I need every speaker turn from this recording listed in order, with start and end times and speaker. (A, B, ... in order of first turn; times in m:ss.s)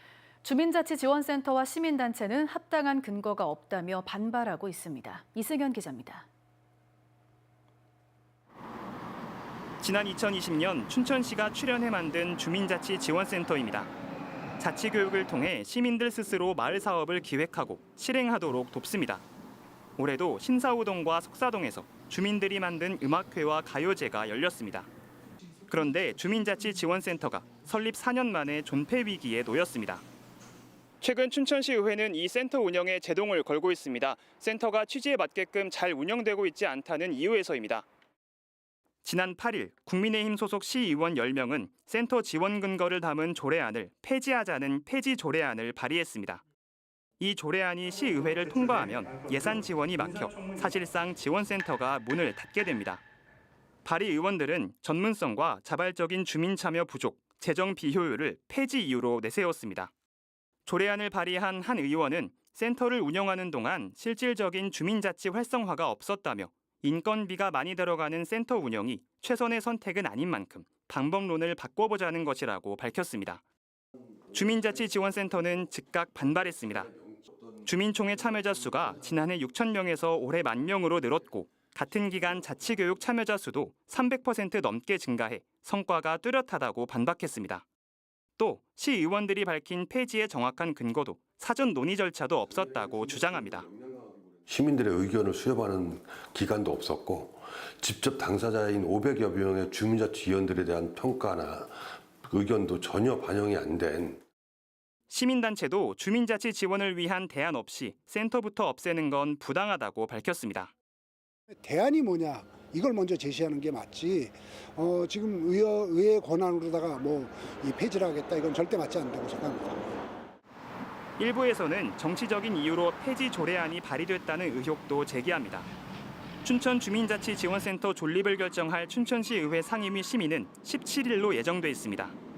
0:00.4-0:06.3 A
0:09.8-0:13.9 B
0:14.6-0:19.2 B
0:20.0-0:24.9 B
0:25.7-0:30.0 B
0:31.0-0:37.8 B
0:39.0-0:46.4 B
0:47.2-0:53.0 B
0:53.8-0:59.9 B
1:00.6-1:13.4 B
1:14.3-1:16.9 B
1:17.6-1:27.6 B
1:28.4-1:33.7 B
1:33.8-1:44.2 C
1:45.1-1:50.7 B
1:51.5-1:59.9 D
2:01.2-2:05.7 B
2:06.4-2:12.1 B